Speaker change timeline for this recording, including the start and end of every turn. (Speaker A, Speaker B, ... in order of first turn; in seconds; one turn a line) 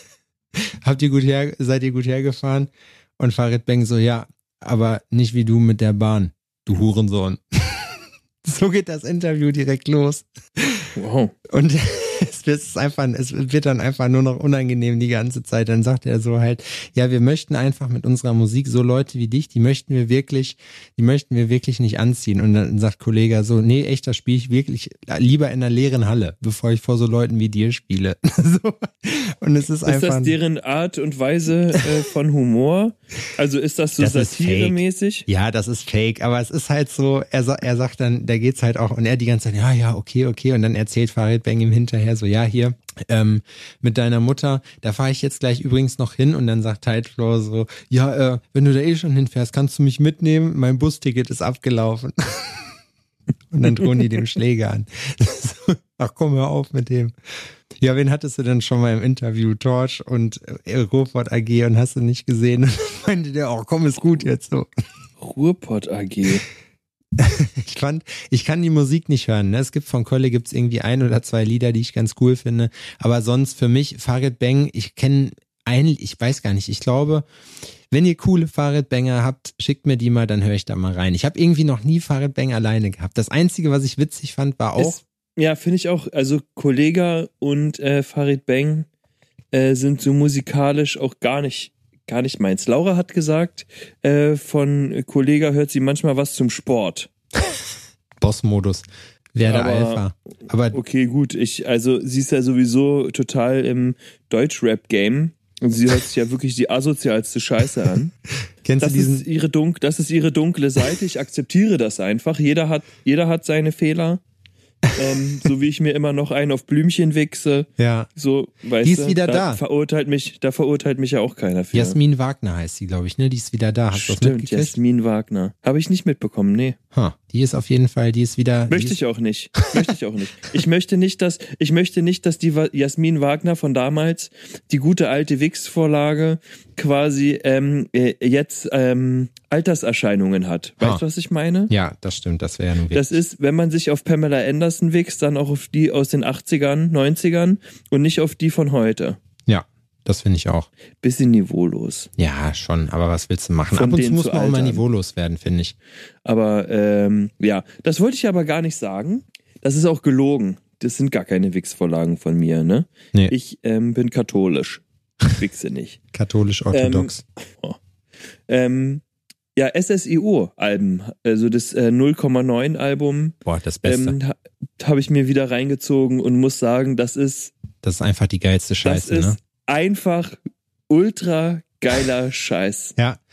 Speaker A: 0.6-10.9
Speaker B: 11.0-11.3
Speaker A: 11.5-30.4
Speaker B: 29.9-35.2
Speaker A: 34.0-52.7
Speaker A: 53.5-57.1
Speaker A: 57.8-64.7
Speaker B: 65.2-66.4
Speaker A: 67.2-77.3
Speaker A: 77.9-85.0
Speaker B: 84.8-88.9
Speaker B: 89.5-97.1
Speaker A: 98.2-100.8
Speaker B: 99.4-100.0
Speaker B: 100.7-108.1
Speaker A: 108.6-109.2
Speaker B: 108.8-114.2
Speaker B: 115.0-122.0
Speaker A: 117.8-118.1
Speaker A: 118.8-119.6
Speaker A: 121.7-124.8
Speaker B: 123.9-126.8
Speaker A: 126.9-129.0
Speaker B: 128.7-141.7
Speaker A: 141.7-143.1
Speaker B: 142.9-149.2
Speaker A: 149.5-150.7
Speaker B: 151.0-152.1
Speaker A: 152.2-155.8
Speaker B: 153.7-154.8
Speaker B: 156.2-166.0
Speaker A: 166.1-167.2
Speaker B: 166.7-167.8
Speaker B: 168.5-169.0
Speaker B: 169.6-177.5
Speaker A: 173.4-174.2
Speaker A: 177.8-179.4
Speaker B: 178.8-180.4
Speaker B: 180.9-183.0